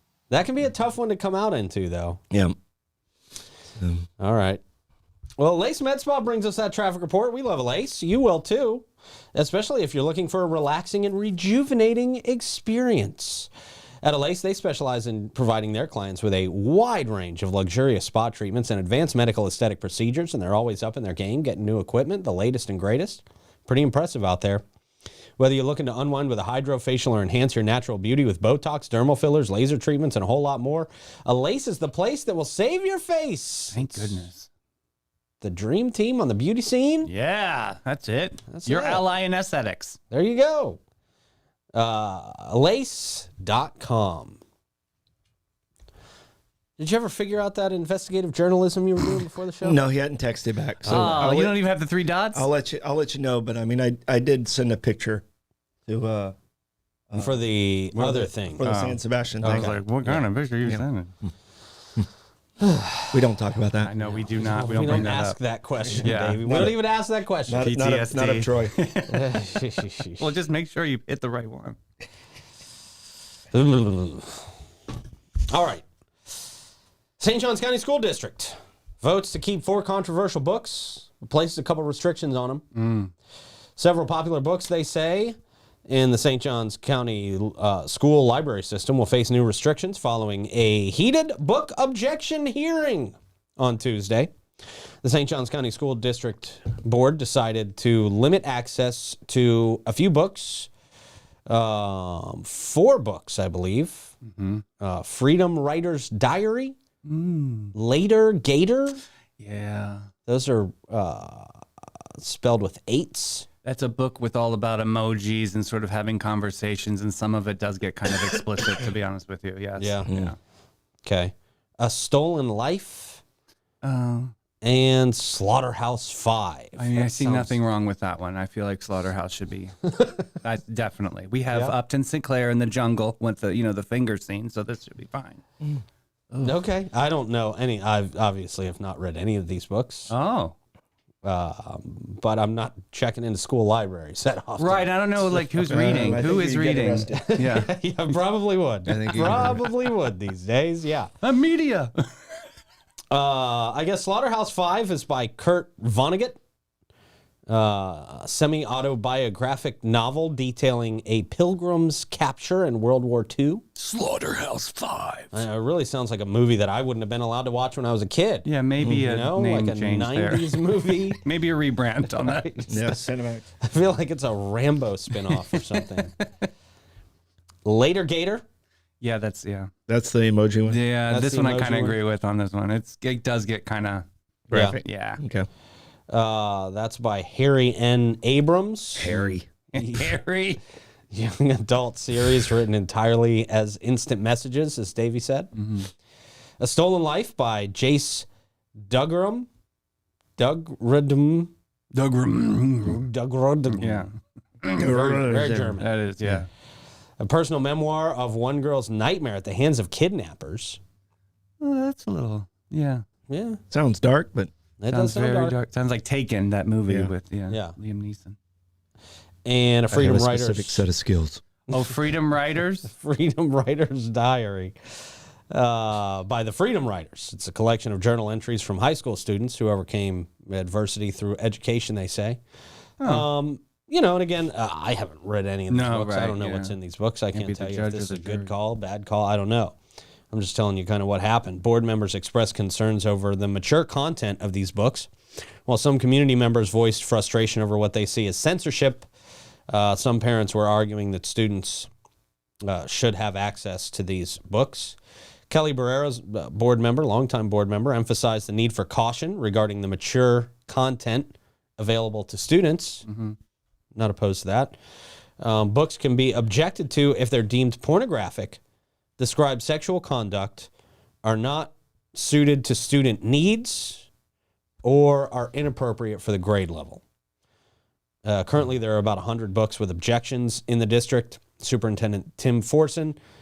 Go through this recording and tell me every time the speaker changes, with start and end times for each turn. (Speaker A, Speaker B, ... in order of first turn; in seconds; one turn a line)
Speaker A: 0.3-2.2
Speaker B: 3.8-4.1
Speaker A: 4.2-4.6
Speaker A: 5.4-13.5
Speaker A: 14.0-24.6
Speaker A: 25.4-34.2
Speaker C: 33.7-34.5
Speaker A: 35.4-37.1
Speaker C: 37.1-40.0
Speaker A: 38.5-39.0
Speaker A: 40.1-40.8
Speaker A: 41.7-44.4
Speaker A: 46.8-49.8
Speaker B: 49.6-51.6
Speaker A: 50.8-51.3
Speaker C: 50.9-52.5
Speaker B: 52.3-55.2
Speaker B: 55.9-56.4
Speaker B: 57.1-57.4
Speaker A: 57.2-58.7
Speaker C: 57.9-61.1
Speaker B: 58.6-60.8
Speaker A: 59.4-60.1
Speaker A: 62.6-63.1
Speaker B: 63.1-63.9
Speaker C: 63.8-65.4
Speaker A: 64.4-67.7
Speaker B: 65.8-66.8
Speaker C: 66.0-66.7
Speaker B: 67.5-68.8
Speaker C: 67.6-69.4
Speaker A: 69.1-70.2
Speaker C: 70.2-71.8
Speaker A: 73.5-74.5
Speaker A: 75.5-75.8
Speaker A: 77.2-82.7
Speaker C: 82.8-83.1
Speaker A: 83.8-85.4
Speaker A: 85.9-94.3
Speaker A: 95.0-100.7
Speaker A: 101.5-104.1
Speaker C: 104.2-104.6
Speaker A: 104.8-106.8
Speaker C: 107.0-107.7
Speaker A: 107.7-109.0
Speaker C: 109.4-110.1
Speaker A: 110.3-111.6
Speaker A: 112.2-113.5
Speaker C: 113.6-120.4
Speaker A: 119.8-120.1
Speaker B: 120.1-120.3
Speaker A: 121.0-123.2
Speaker C: 123.8-124.3
Speaker A: 124.6-127.6
Speaker C: 126.8-135.4
Speaker C: 136.3-136.6
Speaker A: 136.4-140.1
Speaker C: 140.1-140.6
Speaker A: 141.2-146.3
Speaker C: 144.6-147.7
Speaker B: 145.5-147.2
Speaker A: 147.1-151.1
Speaker B: 148.9-149.6
Speaker C: 149.2-149.6
Speaker C: 151.2-151.9
Speaker A: 153.1-156.4
Speaker A: 157.5-163.7
Speaker C: 163.8-165.3
Speaker A: 165.3-171.2
Speaker C: 168.4-172.6
Speaker A: 172.1-173.1
Speaker B: 172.7-173.5
Speaker A: 173.6-176.1
Speaker C: 175.3-175.7
Speaker A: 177.7-178.4
Speaker C: 179.0-179.7
Speaker B: 179.9-180.8
Speaker C: 180.7-184.1
Speaker A: 181.1-182.0
Speaker B: 184.5-185.5
Speaker A: 184.5-184.8
Speaker C: 184.6-185.2
Speaker A: 186.1-190.2
Speaker B: 189.0-189.4
Speaker C: 189.1-190.6
Speaker A: 191.1-195.6
Speaker C: 195.6-195.9
Speaker A: 196.6-198.3
Speaker A: 198.8-199.5
Speaker A: 200.4-201.5
Speaker C: 201.9-203.0
Speaker A: 202.8-204.1
Speaker C: 203.7-204.1
Speaker C: 204.6-204.9
Speaker B: 204.7-206.4
Speaker A: 204.8-205.9
Speaker C: 205.8-206.5
Speaker A: 207.2-210.8
Speaker C: 211.6-213.0
Speaker A: 213.3-213.6
Speaker B: 213.7-214.5
Speaker A: 214.8-215.6
Speaker C: 214.9-218.4
Speaker A: 217.5-217.8
Speaker A: 219.4-220.9
Speaker B: 219.9-221.4
Speaker A: 221.7-222.0
Speaker C: 221.7-222.9
Speaker A: 222.9-232.4
Speaker C: 233.0-233.2
Speaker A: 233.0-239.8
Speaker C: 235.7-236.8
Speaker C: 237.3-238.5
Speaker A: 240.3-245.1
Speaker A: 245.7-249.1
Speaker A: 249.7-251.9
Speaker A: 252.7-255.0
Speaker A: 255.5-263.1
Speaker C: 263.1-263.4
Speaker A: 264.0-264.8
Speaker A: 265.4-268.6
Speaker A: 269.2-270.7
Speaker A: 271.2-274.1
Speaker A: 274.8-277.0
Speaker A: 278.2-283.2